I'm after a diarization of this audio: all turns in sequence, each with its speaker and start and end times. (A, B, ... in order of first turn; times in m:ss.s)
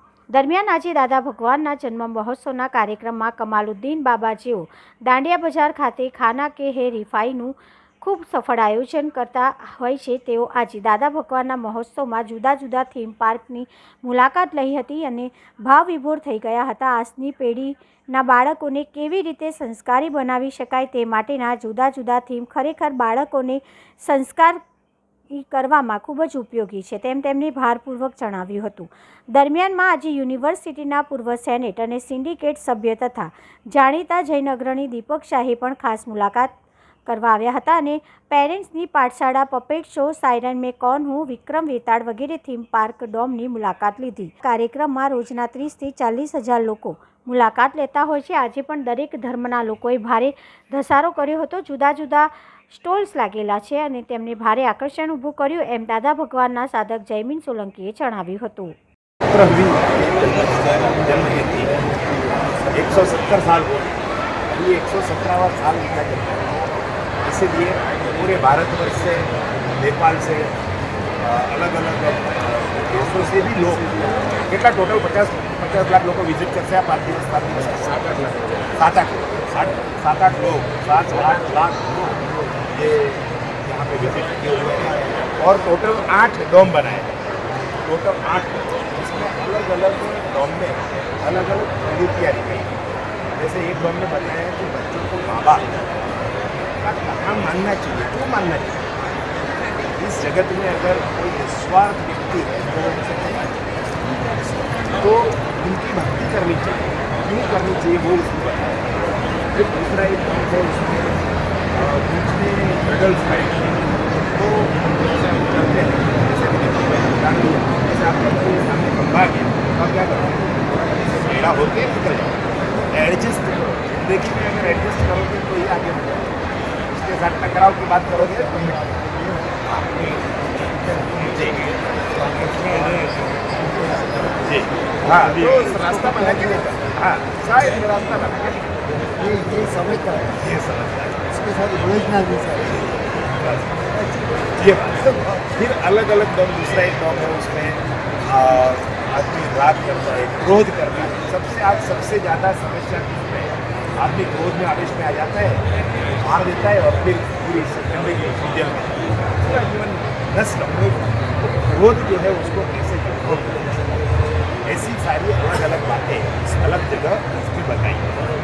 0:00.3-0:24.6 A
0:25.3-0:36.5 A
0:37.0-0:58.7 A
0:59.3-1:01.8 B
1:02.7-1:03.9 B
1:04.5-1:06.5 B
1:07.2-1:10.5 B
1:11.2-1:27.2 B
1:27.8-1:32.7 B
1:33.4-1:35.7 B
1:36.8-1:38.8 B
1:40.0-1:43.5 B
1:44.9-1:48.9 B
1:49.5-2:02.4 B
2:02.9-2:06.3 B
2:06.9-2:08.8 B
2:08.3-2:09.8 C
2:09.8-2:10.1 B
2:10.8-2:11.1 C
2:11.1-2:11.6 B
2:12.1-2:14.3 C
2:14.4-2:18.8 B
2:15.0-2:16.7 C
2:19.2-2:20.4 C
2:20.3-2:21.3 B
2:21.3-2:22.9 C
2:22.9-2:23.7 B
2:24.6-2:35.6 B
2:36.2-2:43.7 B
2:44.6-2:48.2 B